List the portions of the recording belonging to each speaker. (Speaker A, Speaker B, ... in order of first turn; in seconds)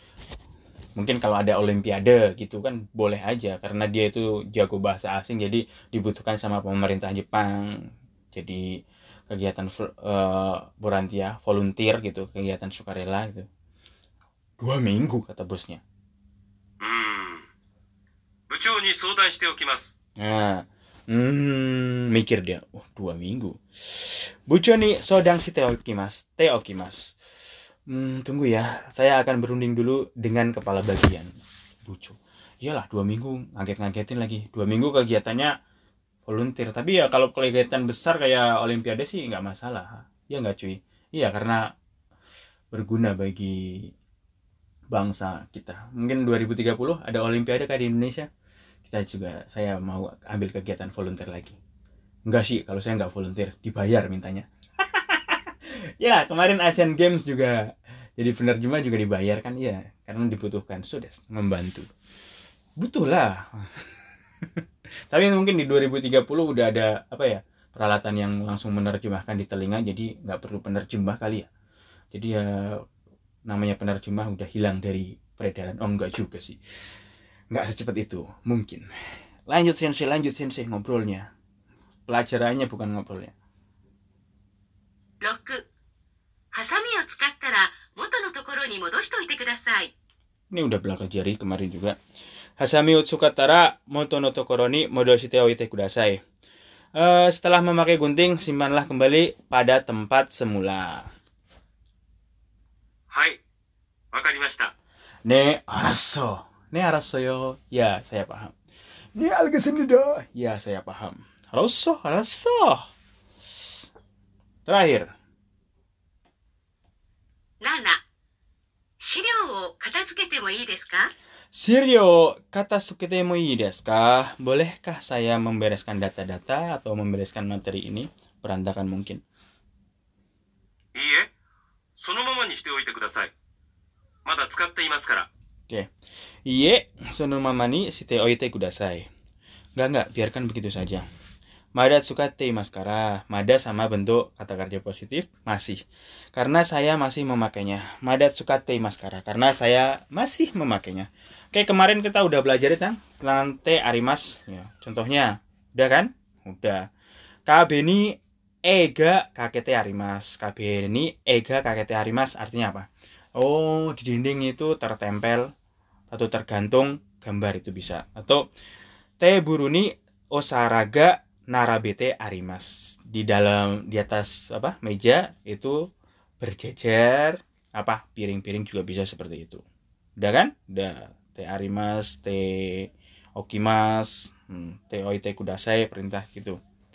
Speaker A: 1.0-7.7, 8.3-8.6, 9.3-13.5, 14.6-15.8, 20.2-27.1, 27.9-31.3, 31.9-35.5, 36.3-41.6, 42.7-43.6, 44.9-48.3, 48.9-51.6, 52.3-55.4, 56.0-57.6, 58.2-61.9, 62.8-63.6, 65.1-71.5, 72.1-72.5, 73.5-76.6, 77.5-78.9, 79.5-81.3, 82.1-83.3, 90.5-92.0, 92.6-96.2, 97.0-101.0, 105.3-108.5, 109.2-112.8, 114.7-115.1, 121.5-129.2, 136.5-139.1, 139.8-141.1, 141.8-145.8, 146.3-156.9, 157.5-158.2, 158.7-162.9, 163.4-165.4, 166.1-168.4, 169.2-175.8, 176.4-179.6, 180.2-186.6
Speaker B: 16.8-17.5, 18.5-19.9, 103.1-103.4, 104.1-104.7, 130.9-131.3, 132.0-133.3, 134.3-135.3
Speaker C: 85.2-85.6, 86.5-89.9, 117.6-118.0, 119.0-121.1